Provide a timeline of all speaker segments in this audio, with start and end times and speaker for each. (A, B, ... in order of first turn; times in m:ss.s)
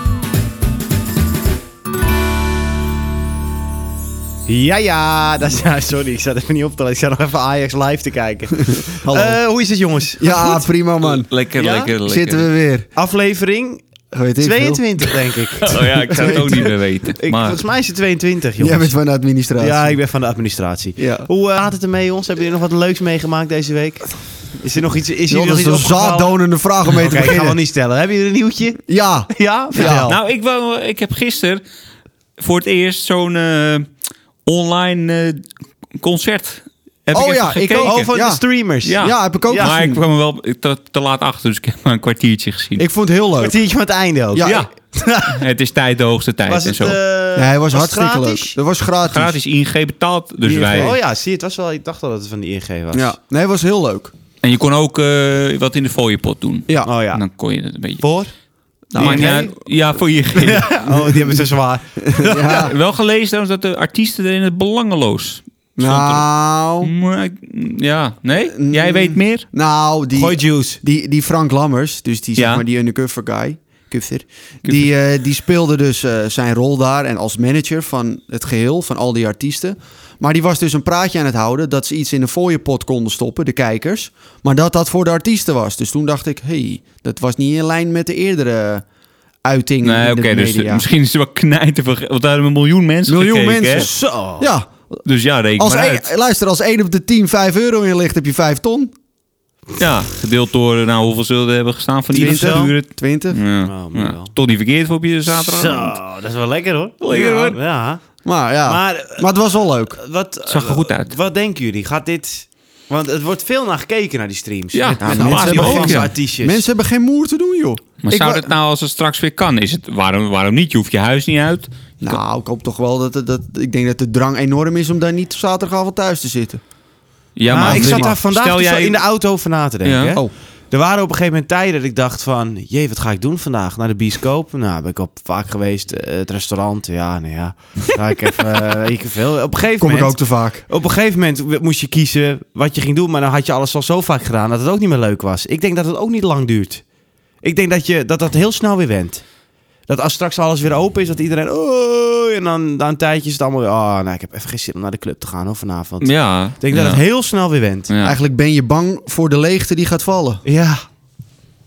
0:04.5-0:10.6 A
0:08.6-0:09.4 B
0:10.2-0:11.3 B
0:11.1-0:12.5 C
0:11.6-0:11.9 A
0:11.9-0:12.9 B
0:13.0-0:13.8 A
0:14.1-0:15.1 B
0:14.4-0:18.9 A
0:15.6-0:17.6 C
0:16.1-0:16.7 B
0:18.6-0:20.0 B
0:19.6-0:26.4 A
0:21.0-0:21.3 B
0:25.3-0:27.6 B
0:26.9-0:30.2 A
0:28.9-0:30.1 B
0:29.8-0:31.6 C
0:32.4-0:33.9 C
0:34.5-0:38.1 C
0:37.1-0:38.4 B
0:37.8-0:39.7 A
0:38.8-0:42.8 C
0:39.0-0:40.0 B
0:42.8-0:43.6 B
0:43.4-0:45.4 A
0:44.3-0:44.7 B
0:44.4-0:44.7 C
0:45.3-0:47.0 C
0:46.5-0:48.6 A
0:47.4-0:49.4 B
0:49.0-0:51.0 C
0:50.5-0:53.2 A
0:50.5-0:50.9 B
0:52.9-0:54.1 B
0:54.4-0:58.1 C
0:56.8-0:57.2 A
0:58.0-0:58.3 A
0:58.9-0:59.5 B
0:59.0-0:59.5 A
0:59.0-1:01.0 C
1:00.4-1:02.7 A
1:02.0-1:02.8 B
1:02.4-1:06.3 C
1:05.8-1:06.9 B
1:06.8-1:09.5 C
1:08.4-1:28.8 B
1:10.1-1:10.8 A
1:12.4-1:12.6 C
1:29.4-1:30.8 B
1:29.8-1:33.9 C
1:33.1-1:35.0 B
1:33.8-1:34.5 A
1:35.0-1:36.1 C
1:35.6-1:38.9 B
1:39.8-1:46.0 C
1:42.1-1:42.7 A
1:42.2-1:43.4 B
1:43.6-1:44.3 A
1:45.3-1:48.0 A
1:47.0-1:47.6 C
1:48.2-1:50.0 B
1:48.7-1:49.3 A
1:50.0-1:56.6 A
1:50.5-1:51.2 C
1:54.7-1:56.1 C
1:55.0-1:58.5 B
1:58.0-2:02.2 C
2:02.0-2:06.6 B
2:07.4-2:09.0 C
2:07.5-2:26.8 A
2:07.6-2:08.2 B
2:09.8-2:10.2 C
2:19.8-2:20.6 B
2:27.4-2:29.2 A
2:29.9-2:37.9 A
2:36.0-2:37.0 C
2:37.9-2:38.2 C
2:38.0-2:40.4 B
2:40.4-2:40.8 A